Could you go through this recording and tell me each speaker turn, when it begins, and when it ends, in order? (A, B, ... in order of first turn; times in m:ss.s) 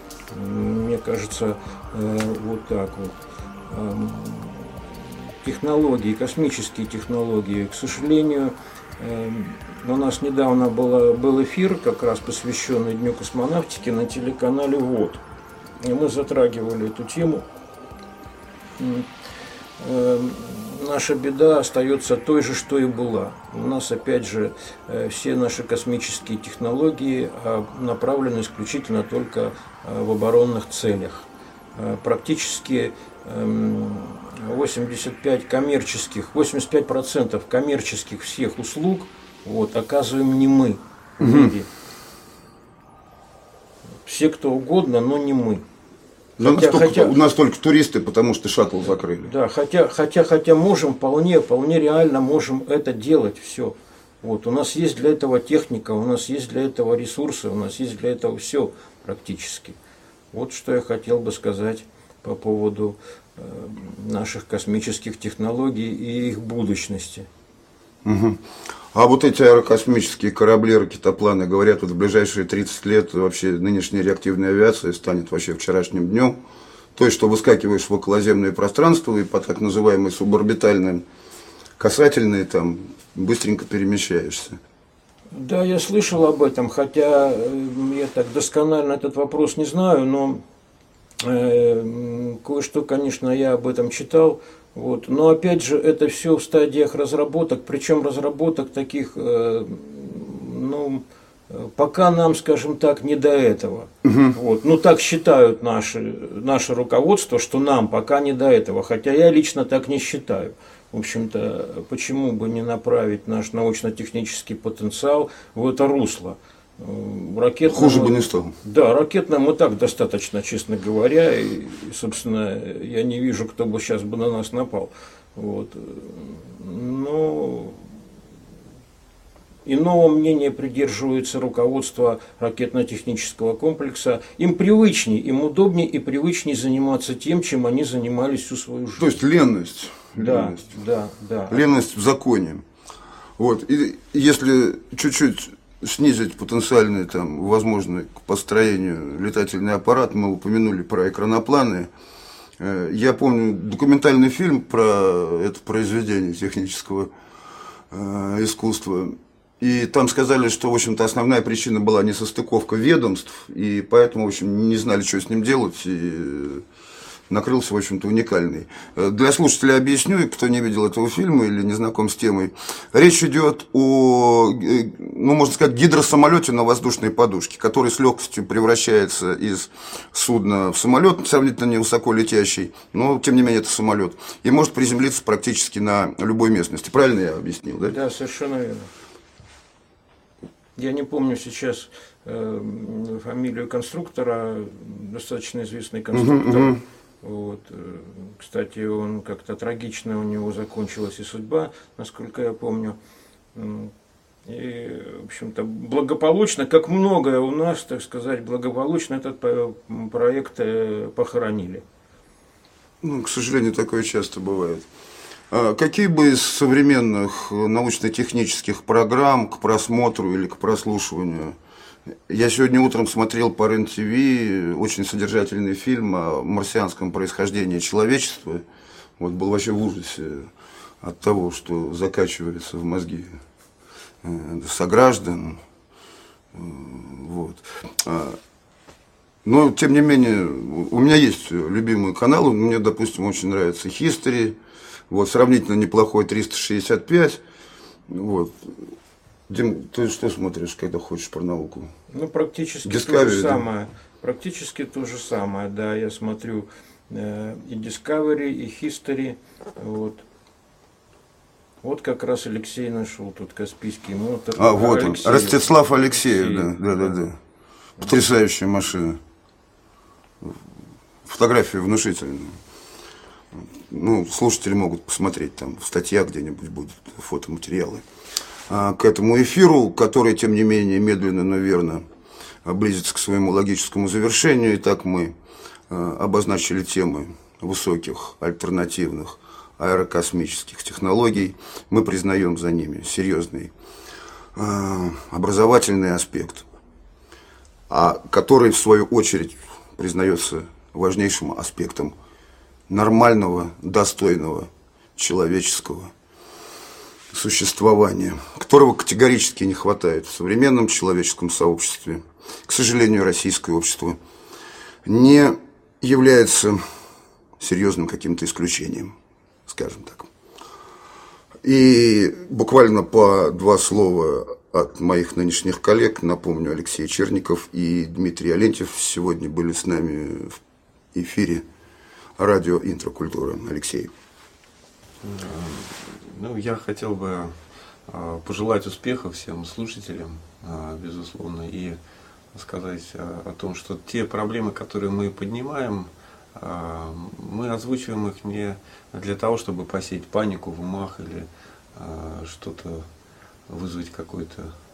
0:00.3-0:03.2 A
0:03.7-0:04.8 A
0:05.4-0:15.2 A
0:15.8-0:17.4 A
0:18.8-0:19.1 A
0:19.8-0:41.7 A
0:41.2-0:41.5 B
0:44.0-0:45.6 A
0:46.4-0:49.3 B
0:46.4-0:47.2 A
0:49.2-0:59.8 A
1:00.3-1:07.3 A
1:08.0-1:08.4 B
1:08.9-1:16.4 B
1:16.9-1:21.0 B
1:21.8-1:24.6 B
1:25.3-1:30.4 A
1:31.2-2:07.8 A
1:44.0-1:44.3 B
1:57.7-1:58.5 B
2:09.6-2:19.2 A
2:19.0-2:20.8 B
2:20.1-2:21.6 A
2:21.5-2:22.6 B
2:23.4-2:31.9 B
2:32.6-2:37.1 B
2:37.9-2:46.6 B
2:47.3-3:08.0 B
3:07.9-3:08.9 A
3:10.8-3:23.0 A
3:16.1-3:16.8 B
3:23.5-3:23.9 A
3:24.4-3:31.8 A
3:33.0-3:34.8 B
3:35.5-3:41.6 B
3:42.3-3:48.6 B
3:49.2-3:50.5 B
3:51.0-3:53.3 B
3:54.2-3:55.6 B
3:56.5-3:58.4 B
3:59.4-4:04.6 B
4:05.1-4:07.4 B
4:08.1-4:08.9 B
4:09.5-4:11.9 B
4:12.1-4:20.2 A
4:12.8-4:13.6 B
4:21.8-4:27.1 A
4:24.6-4:27.4 B
4:28.0-4:29.2 B
4:31.2-4:32.6 B
4:33.6-4:38.0 B
4:38.7-4:42.0 B
4:42.6-4:45.3 B
4:45.9-4:53.7 B
4:54.5-4:56.6 B
4:57.9-5:02.1 B
5:02.9-5:06.1 B
5:07.3-5:14.2 B
5:15.0-5:16.8 B
5:17.6-5:19.1 B
5:19.7-5:20.3 B
5:21.6-5:30.6 B
5:31.1-5:31.6 B
5:32.4-5:34.1 B
5:35.2-5:37.6 C
5:38.1-5:42.0 C
5:42.5-5:53.1 C
5:53.7-5:54.7 C